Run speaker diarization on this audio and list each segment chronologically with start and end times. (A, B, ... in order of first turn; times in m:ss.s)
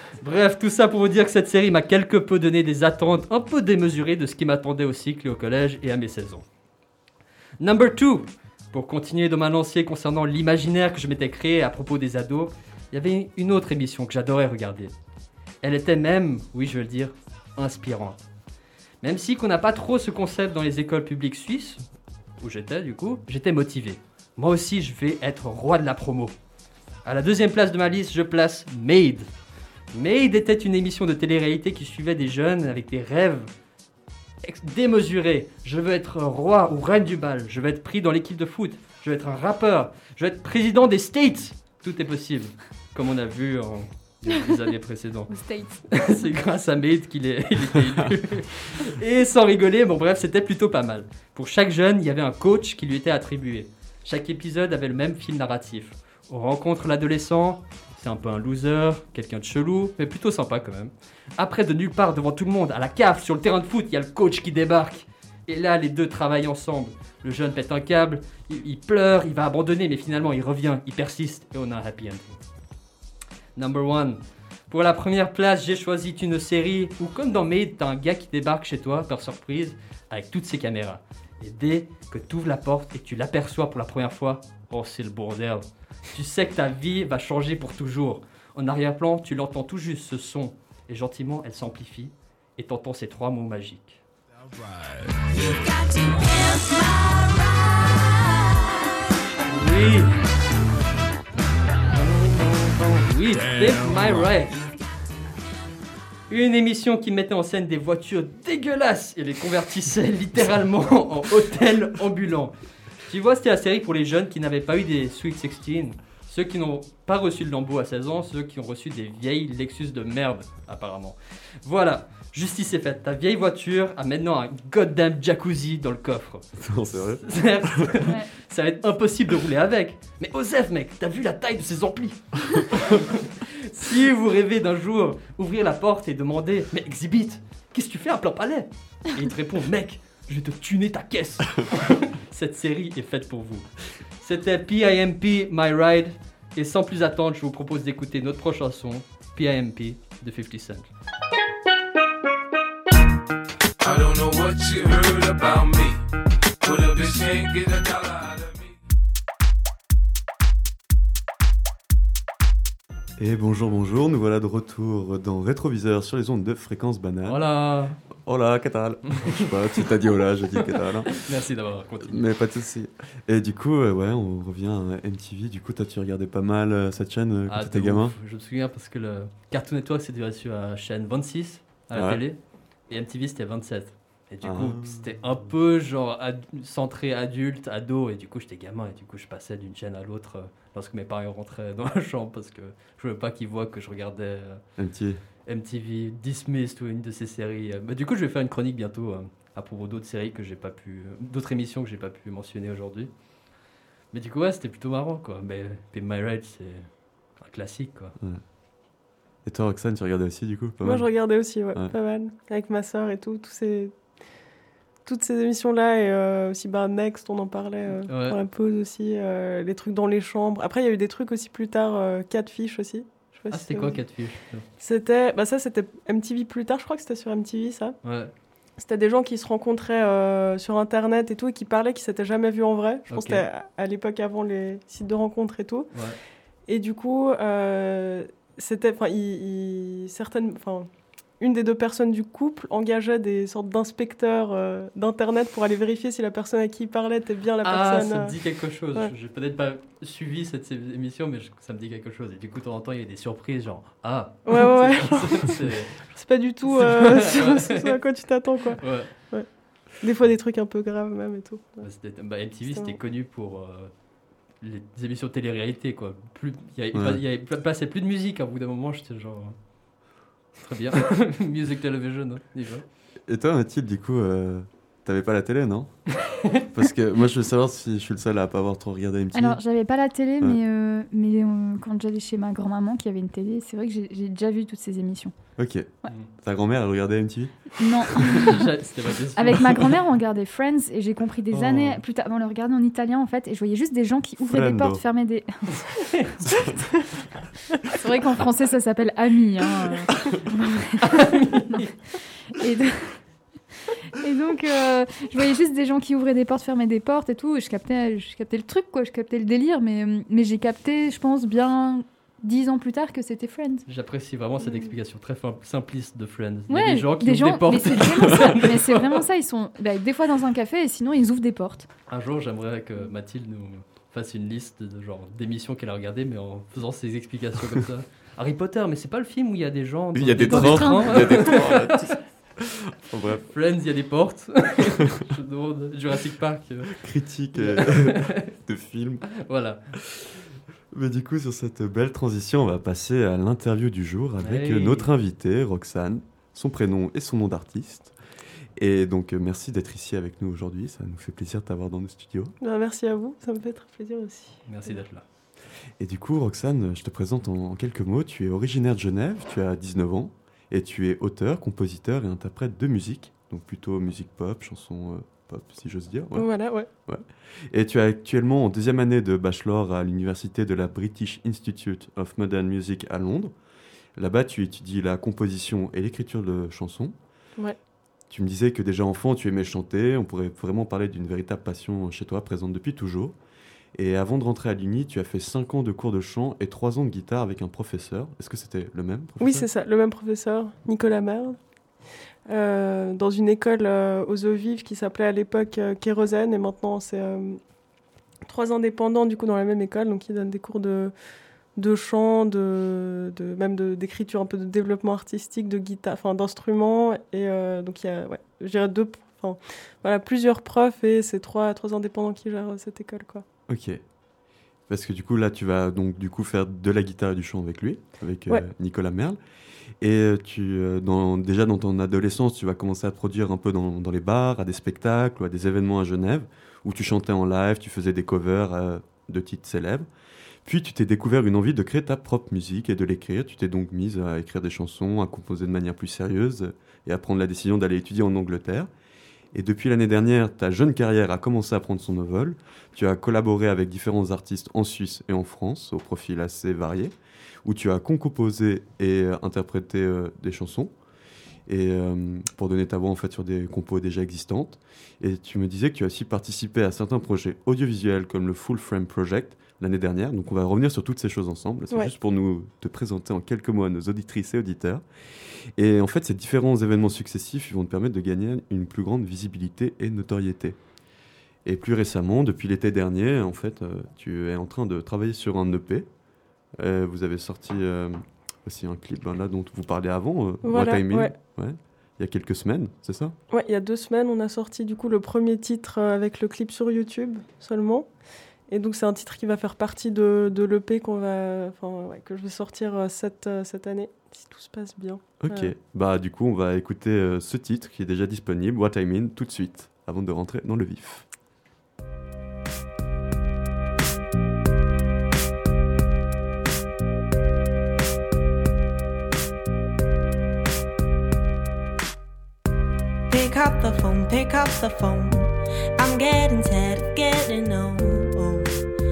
0:00.2-0:06.4 A
0:07.6-0:14.9 A
0:15.6-0:18.2 A
0:19.0-0:21.8 A
0:22.4-0:26.4 A
0:27.0-0:29.3 A
0:29.9-0:33.5 A
0:34.4-0:45.3 A
0:45.3-0:46.2 B
0:45.9-1:12.4 A
1:13.6-1:14.2 A
1:14.7-1:34.0 A
1:35.3-1:35.7 C
1:39.5-1:40.2 A
1:41.9-1:44.6 A
1:43.5-1:44.2 C
1:46.3-1:52.5 A
1:53.1-2:30.9 A
2:06.6-2:08.1 D
2:33.8-2:36.0 C
2:36.6-2:38.7 C
2:43.2-2:47.4 D
2:47.3-2:48.0 A
2:48.2-2:51.3 D
2:49.2-2:49.9 A
2:50.6-2:52.2 A
2:52.0-2:58.2 D
2:57.5-3:14.6 A
3:01.9-3:02.2 D
3:04.4-3:05.1 D
3:14.8-3:15.2 D
3:15.5-3:23.1 A
3:24.1-3:28.2 A
3:29.4-3:31.9 D
3:30.8-3:34.1 E
3:35.0-3:44.2 E
3:38.0-3:38.4 A
3:43.5-3:44.7 A
3:44.8-3:48.0 E
3:48.0-3:48.3 A
3:48.8-3:56.0 E
3:53.1-3:53.4 A
3:56.7-4:08.4 E
4:07.6-4:18.0 A
4:14.5-4:21.9 E
4:18.8-4:19.3 A
4:21.8-4:23.9 A
4:22.6-4:23.0 E
4:24.6-4:29.6 A
4:26.9-4:27.2 D
4:30.6-4:32.8 A
4:33.3-4:39.6 D
4:39.3-4:45.4 B
4:45.6-4:47.8 D
4:47.8-4:48.6 B
4:48.3-4:49.9 A
4:49.4-4:56.1 B
4:51.5-4:52.0 A
4:54.5-4:55.0 D
4:56.5-4:56.8 D
4:57.9-5:01.9 B
5:01.1-5:01.9 A
5:02.5-5:03.2 B
5:04.1-5:13.8 B
5:13.9-5:19.2 A
5:16.7-5:21.9 B
5:22.1-5:32.1 A
5:30.1-5:33.4 D
5:30.5-5:31.6 B
5:33.5-5:37.0 A
5:36.9-5:39.3 D
5:37.5-5:38.5 A
5:39.4-5:39.8 A
5:40.9-5:48.2 D
5:44.4-5:45.1 A
5:48.8-5:52.5 D
5:52.6-5:55.0 E
5:54.7-5:55.2 A
5:56.0-6:13.6 D
6:06.4-6:06.9 E
6:14.2-6:17.1 D
6:18.3-6:23.4 D
6:23.9-6:29.7 D
6:29.4-6:31.7 E
6:32.5-6:37.6 E
6:38.4-6:41.1 E
6:41.8-6:53.4 E
6:53.7-6:54.1 D
6:54.9-6:59.4 D
7:00.0-7:10.1 D
7:10.6-7:18.9 D
7:19.5-7:30.9 D
7:31.7-7:50.8 D
7:51.6-7:56.1 D
7:56.8-8:03.4 D
8:00.6-8:01.4 E
8:03.5-8:15.7 E
8:15.4-8:21.3 D
8:33.3-8:38.8 F